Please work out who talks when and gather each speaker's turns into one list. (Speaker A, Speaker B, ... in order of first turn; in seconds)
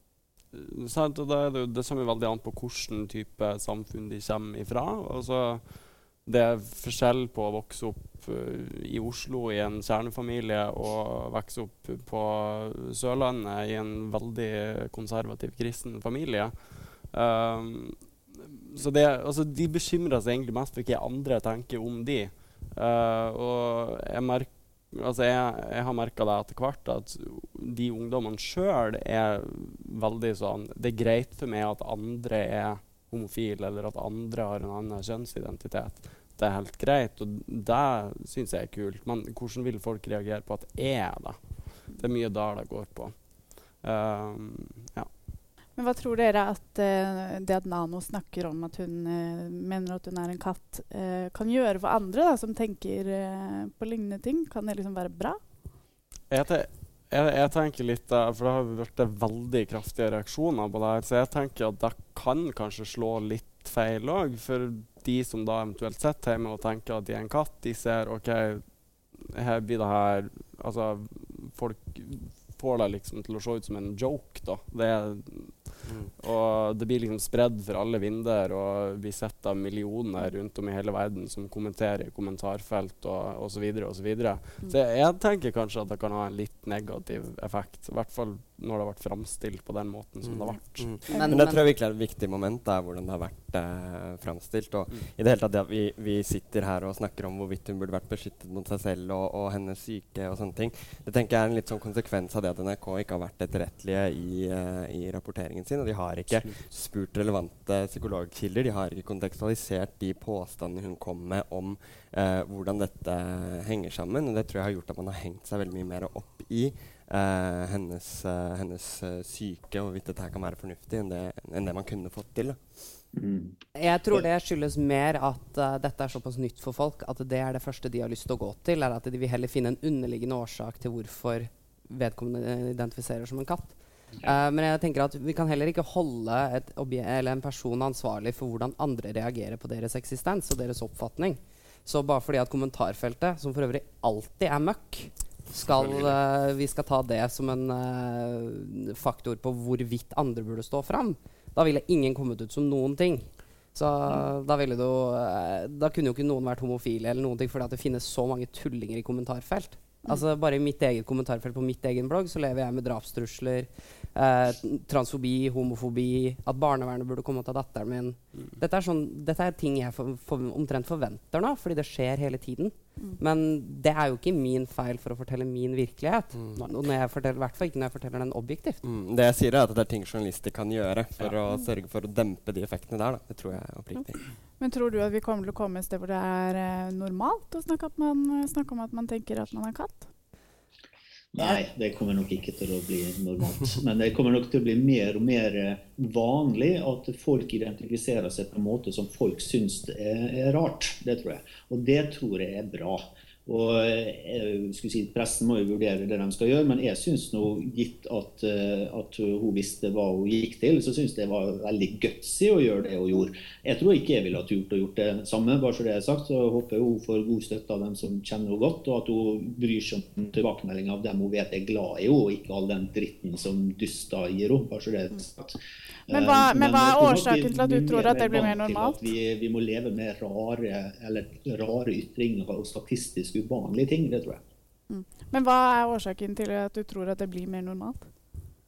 Speaker A: 0.5-45.1, 56.3-91.0
Speaker B: 45.8-55.4, 91.1-91.4, 184.6-190.1, 226.1-229.0, 234.9-238.1
Speaker C: 75.8-76.1, 90.2-122.9, 176.3-176.7, 178.8-184.2
Speaker D: 91.1-91.6, 123.7-178.8
Speaker E: 123.1-123.6, 191.3-234.4